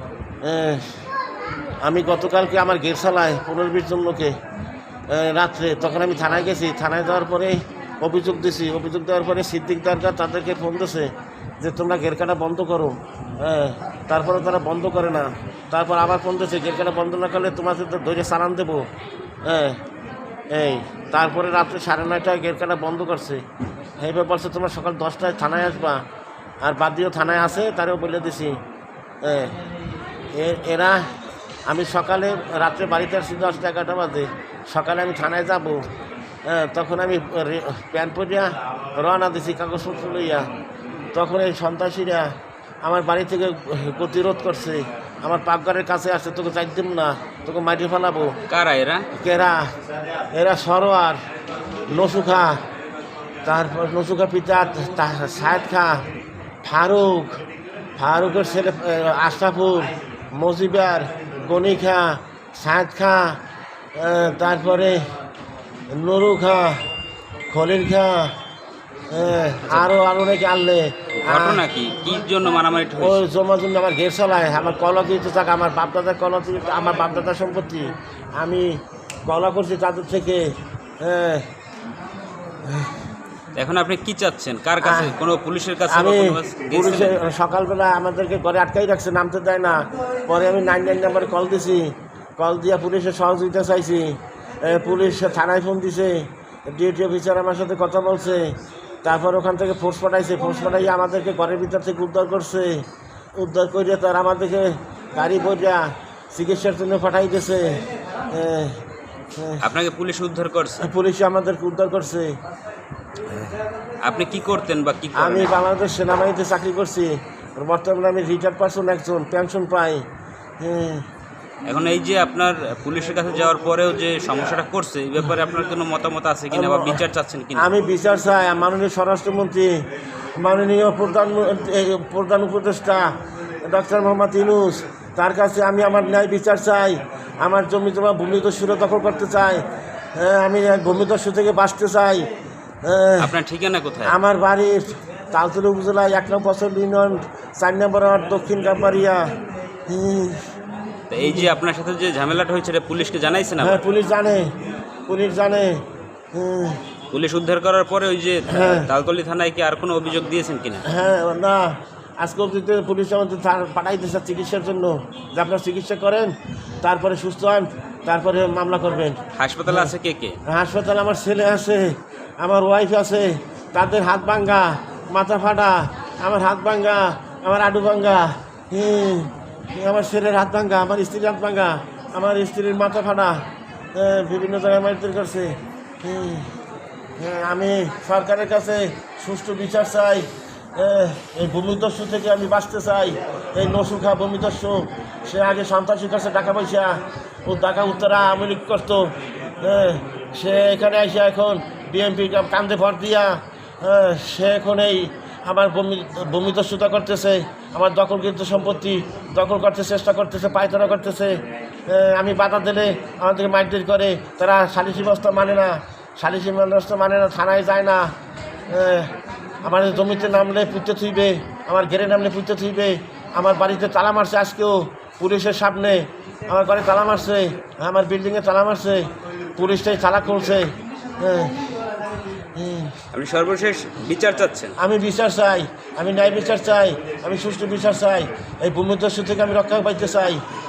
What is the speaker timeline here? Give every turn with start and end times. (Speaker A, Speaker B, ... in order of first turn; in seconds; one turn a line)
Speaker A: 0.4-1.0
Speaker A: 1.8-4.3
Speaker A: 5.1-18.9
Speaker A: 19.4-19.8
Speaker A: 20.5-23.4
Speaker A: 24.0-26.0
Speaker A: 26.6-28.6
Speaker A: 29.2-29.6
Speaker A: 30.3-31.1
Speaker A: 31.7-35.9
Speaker A: 36.4-40.5
Speaker A: 41.1-48.4
Speaker B: 48.5-49.1
Speaker A: 49.1-49.7
Speaker A: 50.3-51.2
Speaker A: 51.9-52.6
Speaker A: 53.4-56.0
Speaker A: 56.6-57.4
Speaker A: 58.0-63.4
Speaker A: 64.0-65.1
Speaker A: 65.9-66.8
Speaker A: 67.5-68.3
Speaker A: 69.1-71.6
Speaker B: 71.2-73.2
Speaker A: 73.0-81.5
Speaker A: 82.7-83.0
Speaker B: 83.5-87.2
Speaker A: 84.8-85.1
Speaker A: 85.9-108.8
Speaker A: 109.3-109.6
Speaker B: 109.6-110.9
Speaker A: 110.8-112.4
Speaker B: 114.0-115.5
Speaker A: 115.1-120.0
Speaker A: 120.6-121.1
Speaker B: 121.6-127.7
Speaker A: 126.5-127.0
Speaker A: 127.5-129.8
Speaker A: 130.3-133.1
Speaker A: 133.6-142.3
Speaker A: 142.8-143.3
Speaker B: 143.2-144.2
Speaker A: 144.0-149.3
Speaker A: 149.9-150.5
Speaker B: 151.1-153.8
Speaker A: 151.2-151.5
Speaker A: 153.6-156.8
Speaker B: 157.1-160.8
Speaker A: 158.5-158.9
Speaker A: 160.8-169.9
Speaker B: 169.3-170.4
Speaker A: 170.4-186.5
Speaker A: 187.2-218.1
Speaker A: 218.7-231.7
Speaker A: 232.5-233.0
Speaker B: 233.1-234.8
Speaker A: 234.8-240.4